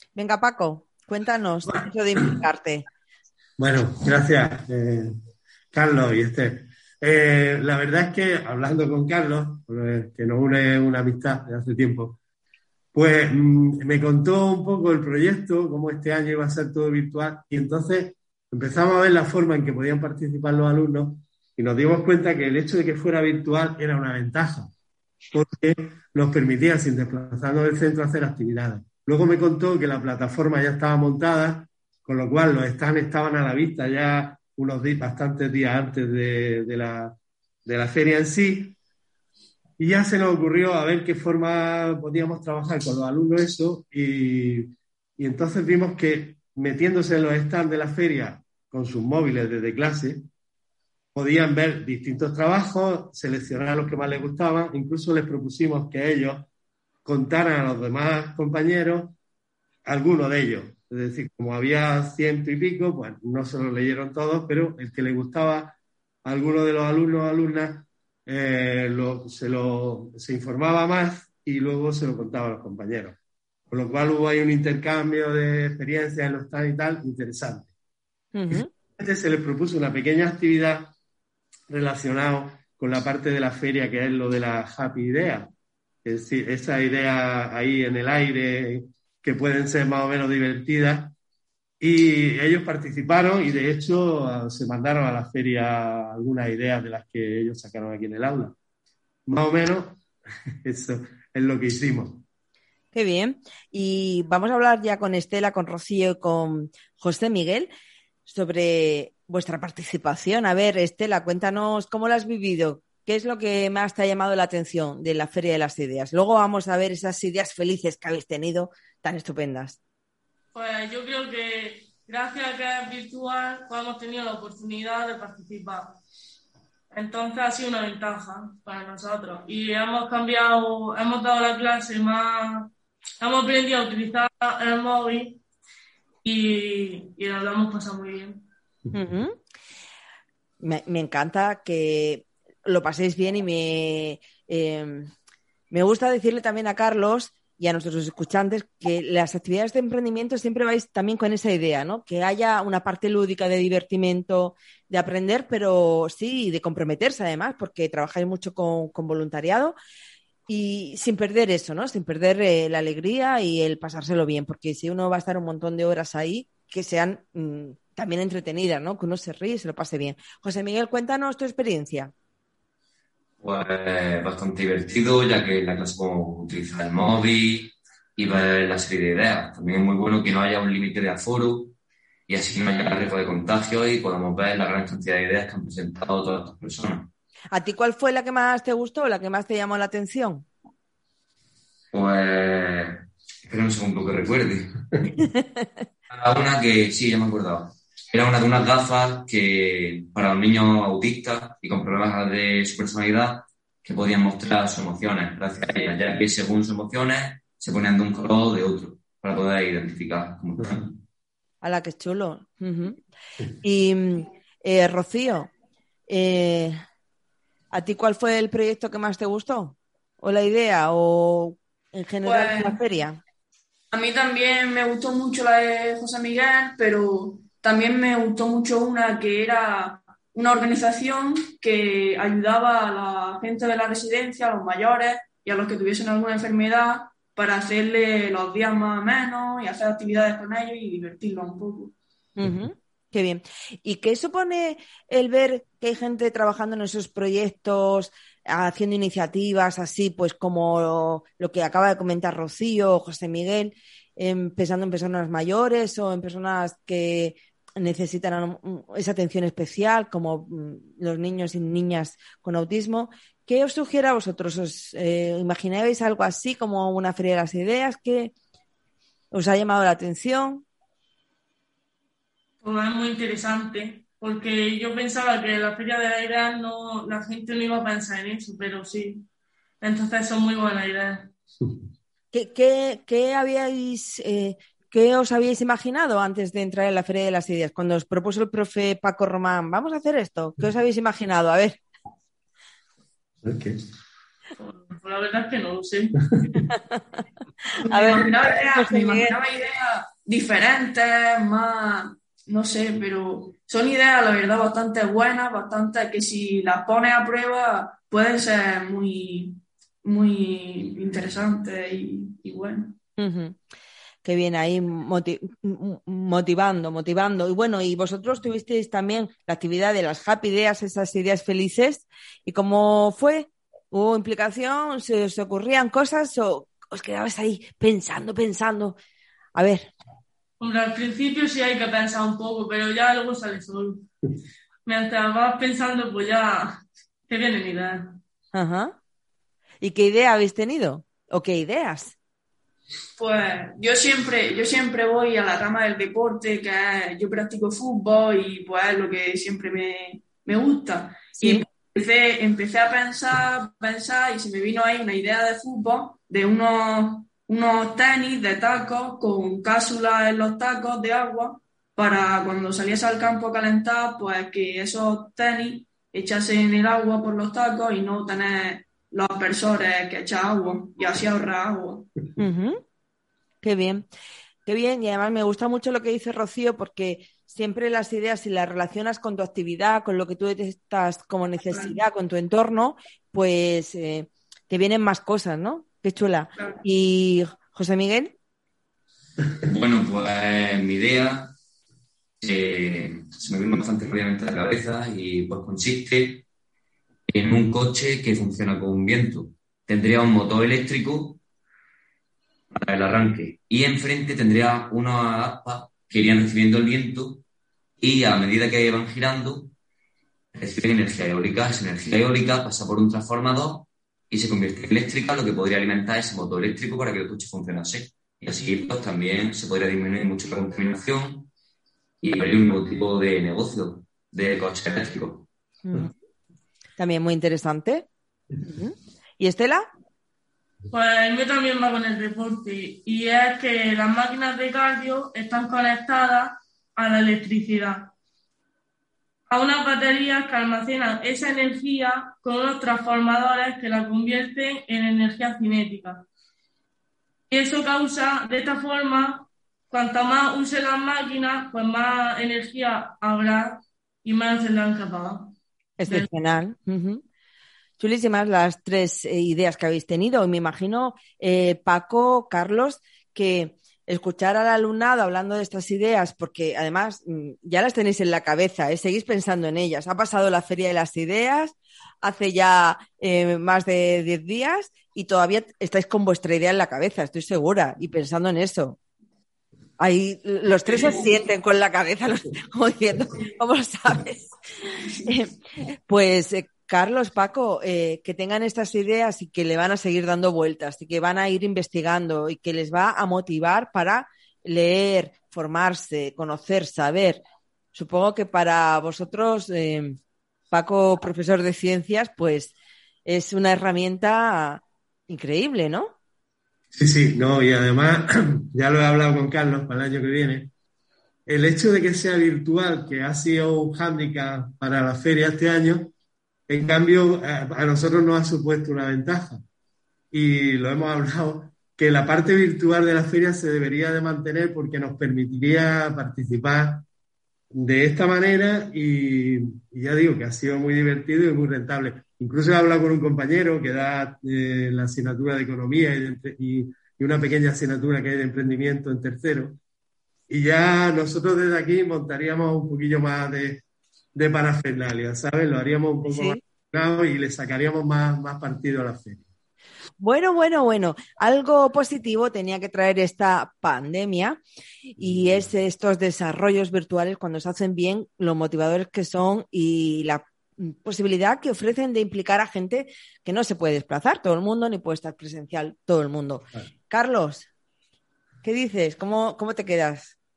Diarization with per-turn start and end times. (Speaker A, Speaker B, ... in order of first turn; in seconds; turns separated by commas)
Speaker A: 0.2-2.9, Speaker B: 3.6-5.2, Speaker B: 5.7-12.2, Speaker B: 12.9-24.7, Speaker B: 25.3-38.8, Speaker B: 39.8-50.3, Speaker B: 51.1-56.5, Speaker B: 57.0-59.2, Speaker B: 59.9-73.2, Speaker B: 73.7-77.7, Speaker A: 78.3-78.7, Speaker B: 78.5-80.9, Speaker B: 81.7-85.5, Speaker B: 86.0-91.2, Speaker B: 91.8-98.6, Speaker B: 99.2-100.0, Speaker B: 100.6-102.2, Speaker A: 102.9-107.7, Speaker A: 108.3-119.8, Speaker C: 120.5-126.0, Speaker C: 126.9-135.4, Speaker C: 136.2-138.4, Speaker A: 138.9-139.4, Speaker A: 140.6-145.1, Speaker A: 145.7-159.8, Speaker A: 160.5-172.1, Speaker D: 173.4-181.8, Speaker D: 182.3-187.1, Speaker A: 187.5-190.4, Speaker D: 191.9-194.8, Speaker D: 196.1-211.0, Speaker A: 211.6-213.0, Speaker A: 213.6-215.5, Speaker A: 216.1-216.8, Speaker A: 217.7-223.2, Speaker E: 222.2-222.8, Speaker E: 223.9-241.9, Speaker A: 242.4-268.3, Speaker A: 269.3-270.6, Speaker C: 272.6-279.3, Speaker C: 279.8-281.3, Speaker A: 282.3-291.8, Speaker B: 293.4-293.8, Speaker C: 294.6-296.2, Speaker E: 297.8-313.0, Speaker A: 297.8-299.4, Speaker A: 313.2-313.6, Speaker A: 314.2-329.0, Speaker A: 329.6-329.9, Speaker C: 330.6-334.1, Speaker C: 334.8-338.2, Speaker A: 338.5-339.0, Speaker A: 339.8-342.2, Speaker E: 343.2-372.1, Speaker A: 351.4-351.6, Speaker A: 372.4-372.8, Speaker A: 373.6-374.1, Speaker A: 374.7-388.3, Speaker D: 389.6-391.6, Speaker D: 392.4-396.4, Speaker D: 397.3-401.4, Speaker D: 402.7-407.4, Speaker D: 408.0-409.7, Speaker D: 410.5-421.5, Speaker D: 422.2-425.5, Speaker A: 425.8-426.1, Speaker A: 427.0-428.1, Speaker A: 428.6-429.9, Speaker C: 430.9-438.1, Speaker C: 439.5-446.3, Speaker C: 447.5-455.5, Speaker A: 456.0-457.2, Speaker A: 458.0-479.0, Speaker A: 480.0-484.6, Speaker E: 480.9-481.3, Speaker A: 485.2-485.5, Speaker A: 486.1-500.2, Speaker A: 500.7-506.1, Speaker B: 506.9-510.7, Speaker B: 511.4-516.1, Speaker B: 516.7-519.6, Speaker B: 520.3-527.1, Speaker B: 527.7-539.8, Speaker B: 540.5-549.4, Speaker A: 546.3-546.6, Speaker A: 550.2-554.6, Speaker A: 555.1-567.7, Speaker A: 568.6-570.4